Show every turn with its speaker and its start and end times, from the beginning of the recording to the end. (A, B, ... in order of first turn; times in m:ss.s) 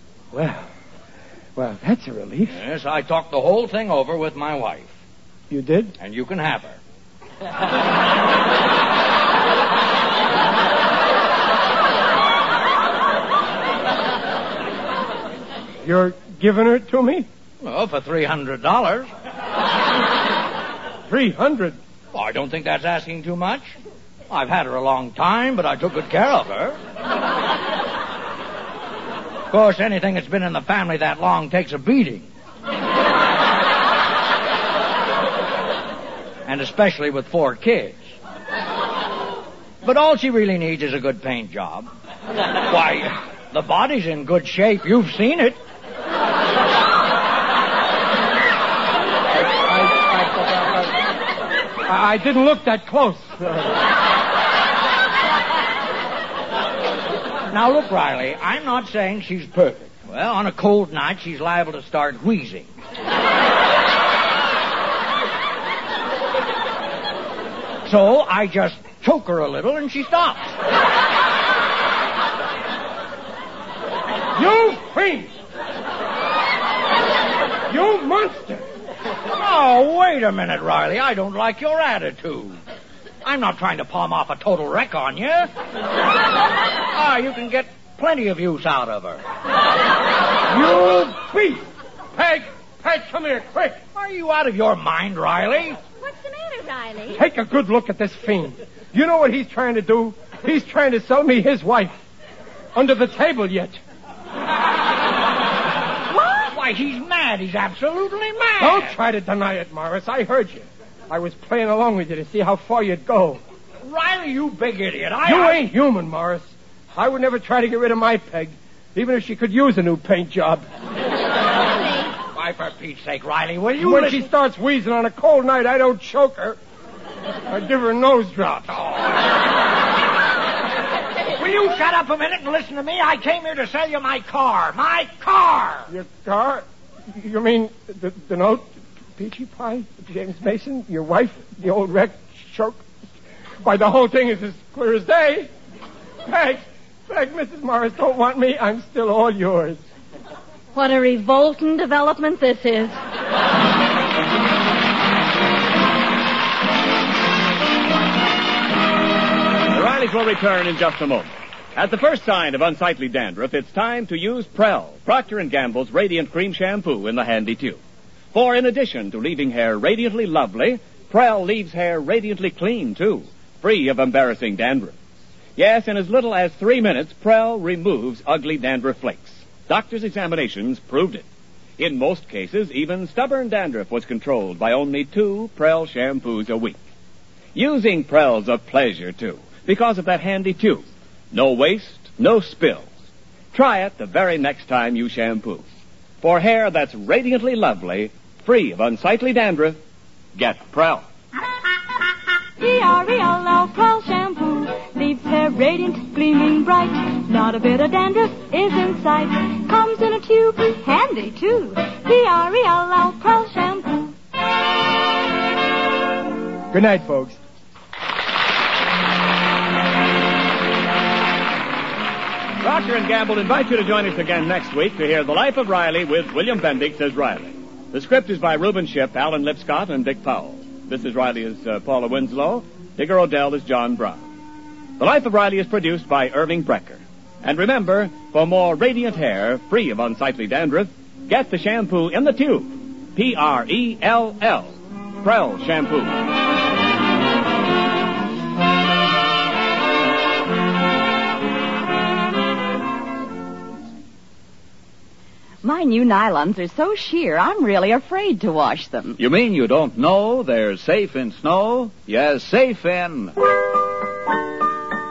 0:00.3-0:00.7 A
0:01.6-0:02.6 A
0:02.5-0:05.0 B
0:05.5-0:05.9 A
0:06.0-0:06.8 B
0:15.8-0:17.3 A
0:17.6-0:19.1 B
0:21.1-0:21.8 A
0:22.1-0:23.7 B
0:24.3-0:26.8 B
0:29.5-0:32.3 B
0:36.4-0:38.2 B
0:39.8-0:41.9 B
0:42.6-0:45.6 B
0:49.3-0:51.0 A
0:51.9-0:53.8 A
0:57.5-1:02.7 B
1:07.8-1:10.5 B
1:14.3-1:15.4 A
1:17.7-1:18.6 A
1:19.3-1:22.6 B
1:23.2-1:25.5 B
1:26.9-1:29.2 B
1:30.5-1:33.8 A
1:33.9-1:35.8 B
1:36.0-1:37.2 C
1:37.1-1:42.0 A
1:42.7-1:43.8 A
1:46.1-1:48.9 B
1:48.6-1:53.4 A
1:53.8-1:55.6 B
1:55.2-2:00.6 A
2:02.3-2:04.2 B
2:03.8-2:06.6 A
2:07.5-2:08.8 A
2:11.4-2:15.9 B
2:15.9-2:22.8 A
2:23.6-2:25.5 A
2:26.2-2:29.8 A
2:30.7-2:33.0 C
2:39.7-2:47.8 D
2:48.3-2:54.9 D
2:55.6-3:01.2 D
3:01.8-3:06.8 D
3:07.5-3:12.9 D
3:13.5-3:15.6 D
3:16.2-3:19.8 D
3:20.4-3:21.0 D
3:22.6-3:34.1 E
3:36.7-3:37.4 A
3:42.6-3:54.2 D
3:55.0-4:06.2 D
4:15.6-4:19.2 F
4:19.2-4:23.4 G